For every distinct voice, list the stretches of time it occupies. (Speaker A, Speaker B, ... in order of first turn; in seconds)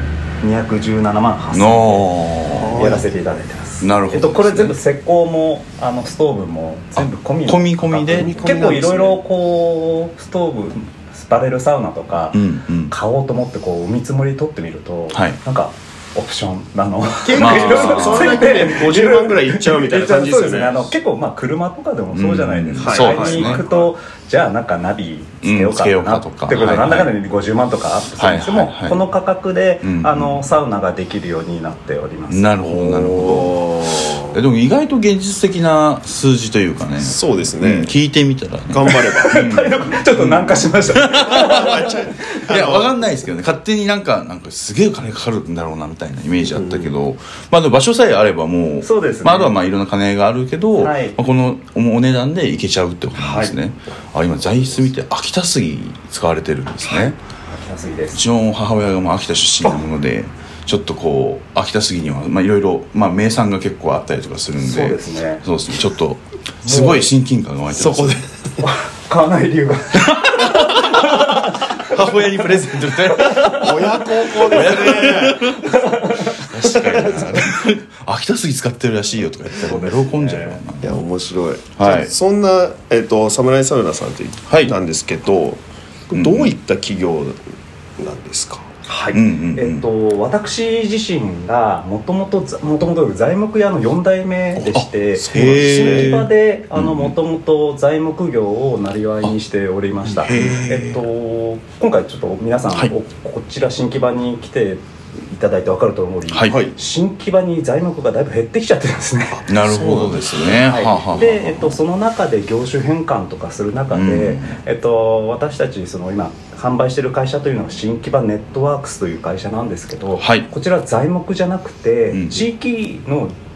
Speaker A: 0.4-2.1, 2.7-32.5, 39.2-42.4, 48.8-49.5, 50.8-51.2, 53.1-53.6, 57.5-58.2, 64.6-65.4, 66.6-67.1, 68.6-72.0, 73.1-73.6, 75.7-76.4, 79.5-80.6, 88.9-109.5, 110.6-123.4
Speaker B: 1.5-3.0, 3.8-4.8, 7.5-8.3, 12.3-12.9, 15.1-15.4, 17.4-18.8, 22.1-23.7, 25.4-27.1, 28.2-29.0, 29.8-30.4, 32.3-41.8, 42.5-57.2, 58.1-68.3, 70.0-75.7, 76.4-81.0, 81.8-82.1, 84.5-84.8, 86.1-86.5, 89.1-89.8, 94.7-97.1, 100.2-100.9, 106.3-106.6, 109.5-111.8, 113.9-114.6, 120.2-120.5, 122.1-122.4
Speaker C: 2.5-3.1, 8.1-9.2, 17.2-20.9, 22.8-23.9, 32.6-34.4, 37.0-37.9, 38.7-39.4, 41.1-43.0, 46.5-46.9, 73.5-75.6, 76.7-77.4, 80.8-87.4, 88.0-88.7, 94.6-96.2, 100.1-100.7, 109.5-110.6